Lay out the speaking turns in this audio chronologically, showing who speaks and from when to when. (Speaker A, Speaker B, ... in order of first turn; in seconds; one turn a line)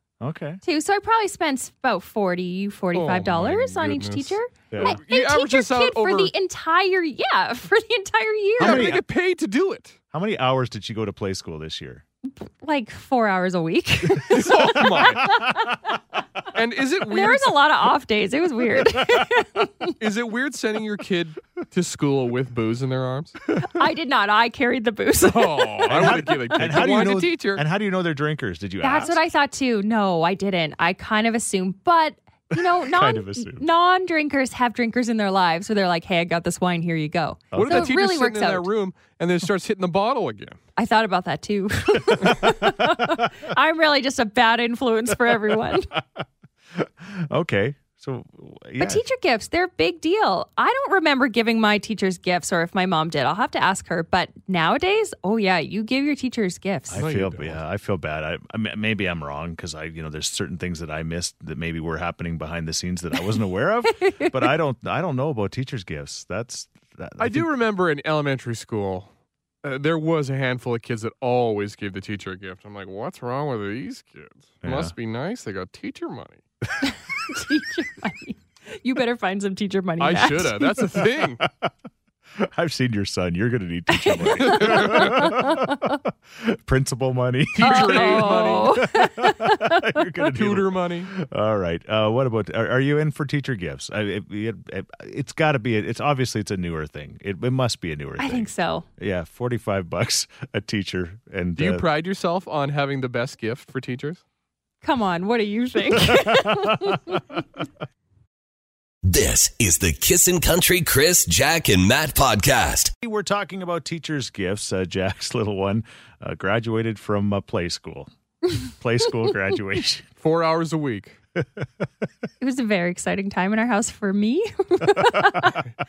Speaker A: 0.2-0.6
Speaker B: 0.6-8.9
Speaker C: 2.9-6.3
Speaker A: 4.7-5.0
Speaker A: 8.6-9.0
Speaker C: 8.6-9.9
Speaker A: 10.1-12.0
Speaker B: 12.4-15.9
Speaker C: 14.3-15.3
Speaker C: 16.5-17.6
Speaker B: 17.1-19.9
Speaker C: 20.0-23.4
Speaker B: 23.6-26.8
Speaker C: 25.2-27.6
Speaker A: 25.9-29.2
Speaker B: 28.8-38.7
Speaker A: 32.5-33.7
Speaker A: 37.5-37.9
Speaker C: 37.5-40.6
Speaker B: 40.8-45.9
Speaker A: 42.2-42.5
Speaker A: 45.9-49.0
Speaker B: 48.8-57.0
Speaker A: 56.9-67.5
Speaker C: 56.9-57.6
Speaker B: 64.0-64.3
Speaker C: 67.2-69.1
Speaker C: 69.6-76.4
Speaker A: 74.6-74.9
Speaker B: 76.8-80.9
Speaker C: 80.0-81.4
Speaker A: 81.4-81.7
Speaker A: 82.4-101.8
Speaker B: 83.9-86.0
Speaker C: 84.5-85.2
Speaker C: 87.5-88.7
Speaker B: 87.6-90.0
Speaker C: 90.3-91.1
Speaker B: 98.2-98.8
Speaker C: 101.5-104.2
Speaker B: 104.8-107.3
Speaker A: 106.2-107.2
Speaker D: 109.0-112.9
Speaker A: 113.0-120.0
Speaker C: 120.2-121.2
Speaker A: 121.4-121.7
Speaker B: 122.4-125.6
Speaker A: 125.0-125.6